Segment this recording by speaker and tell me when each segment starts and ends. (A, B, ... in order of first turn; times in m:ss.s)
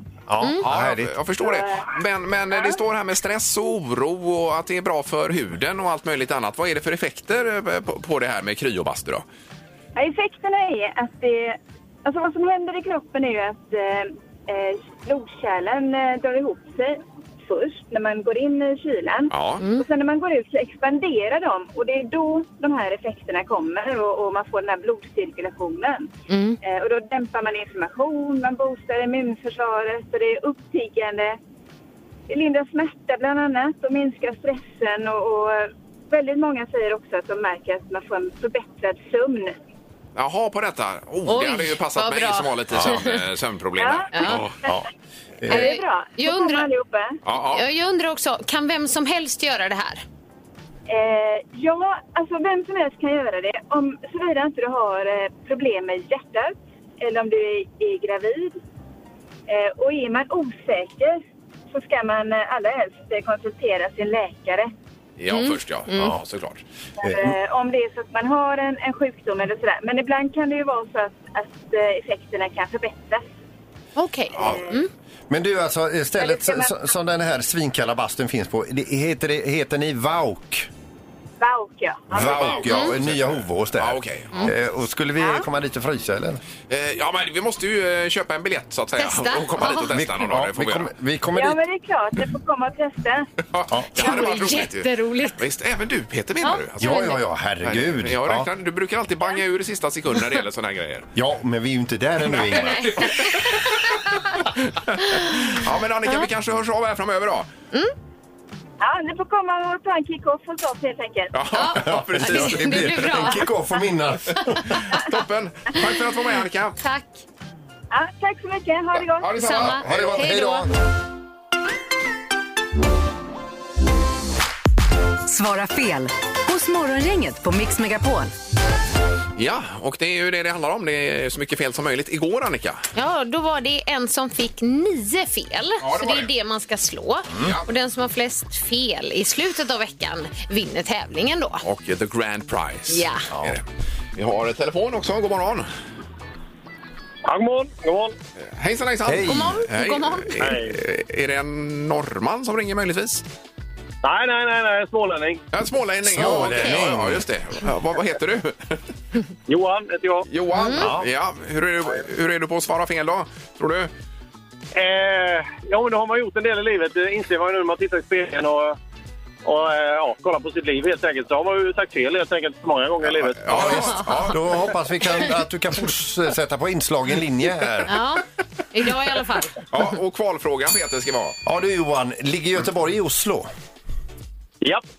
0:00.3-0:01.2 A
0:00.6-0:09.2 B
0:01.4-0:01.8 C
0:09.9-0:26.1 C
0:19.3-0:19.6 B
0:19.6-0:19.8 D
0:26.3-0:26.6 D
0:26.6-0:31.4 C
0:32.3-0:39.5 C
0:40.2-0:44.5 B
0:41.3-0:43.2 D
0:43.8-0:44.1 C
0:44.1-0:44.4 D
0:45.4-0:45.7 A
0:45.4-0:47.2 C
0:45.5-0:46.7 D
0:47.2-0:47.6 B
0:47.4-0:50.0 D
0:50.9-0:58.6 C
0:59.5-1:04.7 C
1:05.2-1:06.6 B
1:05.3-1:06.2 D
1:07.0-1:13.3 C
1:07.0-1:07.4 A
1:14.0-1:14.9 D
1:14.3-1:14.8 B
1:14.4-1:14.8 C
1:15.3-1:20.7 A
1:16.2-1:16.8 C
1:21.4-1:22.5 C
1:22.1-1:26.4 A
1:22.1-1:24.5 B
1:22.6-1:22.9 D
1:26.7-1:30.9 B
1:29.0-1:29.9 D
1:29.6-1:31.6 A
1:31.3-1:33.3 C
1:33.5-1:41.1 B
1:33.7-1:34.1 A
1:34.0-1:35.4 D
1:36.4-1:37.2 D
1:36.8-1:38.5 A
1:41.1-1:43.0 A
1:42.3-1:43.8 B
1:42.5-1:44.0 D
1:44.8-1:47.5 B
1:48.8-1:51.3 C
1:51.3-1:53.0 B
1:51.5-1:53.5 D
1:51.8-1:54.6 A
1:54.6-1:56.8 B
1:56.8-1:57.2 D
1:57.9-1:59.4 C
1:58.9-2:00.1 B
1:59.4-2:00.7 D
1:59.8-2:00.7 A
2:05.2-2:08.3 E
2:09.4-2:12.8 B
2:12.9-2:21.6 D
2:15.8-2:16.3 B
2:17.4-2:17.7 B
2:21.6-2:23.6 B
2:22.9-2:23.2 D
2:23.3-2:23.6 A
2:24.2-2:25.7 B
2:27.2-2:28.2 F
2:28.4-2:33.2 B
2:29.0-2:29.6 A
2:29.2-2:30.4 D
2:30.4-2:30.7 F
2:34.0-2:35.4 F
2:35.5-2:38.8 B
2:36.0-2:37.2 A
2:36.2-2:36.9 D
2:39.5-2:40.3 F
2:40.3-2:43.9 B
2:40.5-2:40.9 D
2:40.7-2:41.1 A
2:44.7-2:48.8 F
2:49.4-2:53.6 F
2:53.4-2:54.4 B
2:53.5-2:58.0 A
2:54.0-2:54.3 D
2:57.9-2:59.6 D
2:59.7-3:01.4 B
3:01.4-3:03.5 A